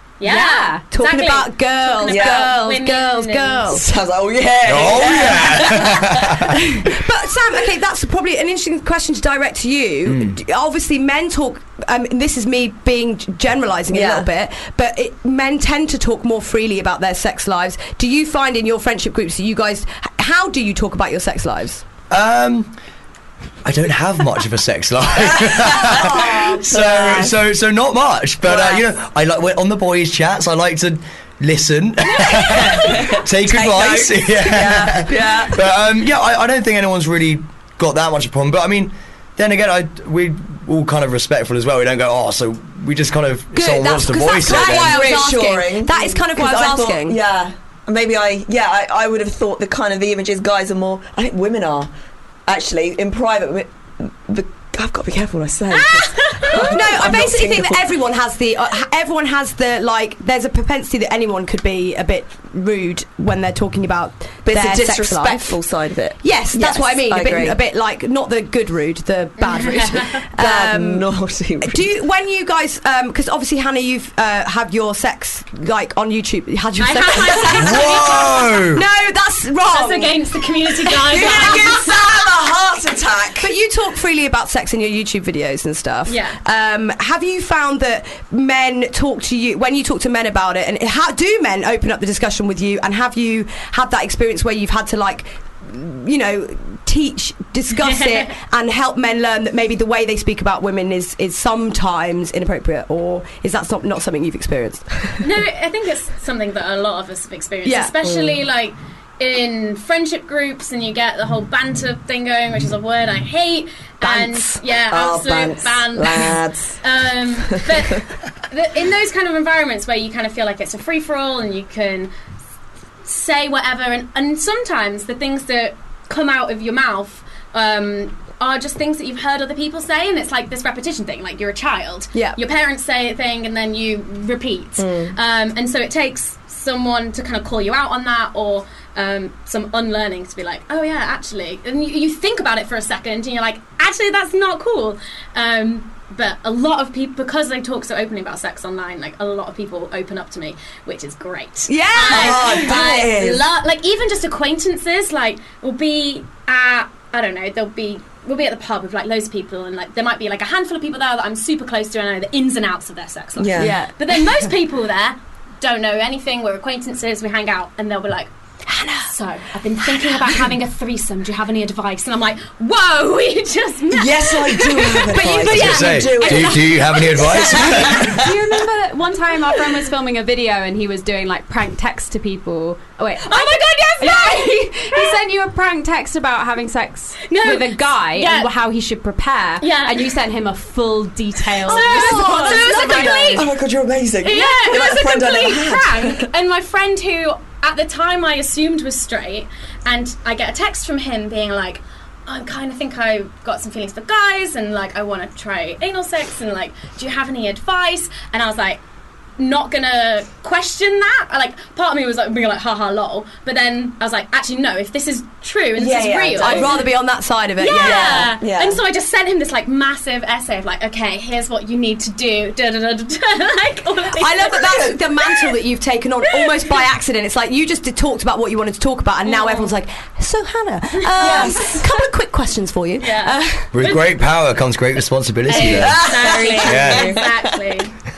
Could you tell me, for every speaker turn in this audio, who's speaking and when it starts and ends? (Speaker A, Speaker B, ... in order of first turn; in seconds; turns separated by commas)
Speaker A: 0.2-3.8, Speaker B: 0.2-0.9, Speaker C: 0.9-3.9, Speaker D: 2.1-2.5, Speaker D: 3.7-6.5, Speaker E: 4.7-6.6, Speaker C: 6.6-21.8, Speaker E: 10.1-10.3, Speaker D: 13.9-14.3, Speaker E: 22.1-22.7, Speaker E: 23.6-45.2, Speaker D: 25.4-27.4, Speaker D: 28.4-28.9, Speaker D: 32.1-35.8, Speaker C: 43.5-47.2, Speaker D: 44.4-51.9, Speaker D: 52.5-57.9, Speaker A: 56.1-56.6, Speaker C: 56.4-65.6, Speaker D: 64.5-67.6, Speaker C: 66.2-71.0, Speaker A: 69.4-70.2, Speaker D: 70.4-71.9, Speaker C: 71.6-82.3, Speaker A: 76.8-78.6, Speaker E: 77.6-78.8, Speaker A: 79.7-81.9, Speaker D: 81.1-83.5, Speaker C: 83.4-105.2, Speaker A: 86.1-86.4, Speaker A: 97.8-98.3, Speaker A: 105.2-122.1, Speaker C: 107.6-108.0, Speaker D: 108.0-108.4, Speaker C: 114.0-114.6, Speaker D: 114.9-116.8, Speaker D: 117.5-118.0, Speaker A: 123.0-168.3, Speaker C: 132.1-132.4, Speaker D: 134.8-135.2, Speaker C: 151.7-152.8, Speaker D: 152.1-153.4, Speaker D: 163.4-163.8, Speaker C: 163.6-164.0, Speaker C: 168.7-169.1, Speaker A: 169.1-175.3, Speaker D: 173.9-178.3, Speaker C: 175.0-177.7, Speaker E: 175.4-178.3, Speaker A: 176.9-177.2, Speaker B: 177.7-193.4, Speaker A: 183.2-185.2, Speaker A: 187.2-188.5, Speaker A: 189.6-190.1, Speaker A: 191.6-193.5, Speaker C: 191.7-193.5, Speaker D: 191.9-196.3, Speaker A: 194.2-208.8, Speaker B: 194.4-195.1, Speaker A: 209.4-216.8, Speaker D: 215.8-216.8, Speaker C: 216.4-218.3, Speaker A: 217.6-225.5, Speaker D: 217.8-218.8, Speaker C: 224.2-233.7, Speaker A: 226.3-226.7, Speaker A: 229.2-229.7, Speaker A: 231.0-231.9, Speaker D: 231.2-231.5, Speaker A: 233.0-234.2, Speaker E: 233.7-237.1, Speaker A: 235.5-237.9, Speaker D: 235.5-237.5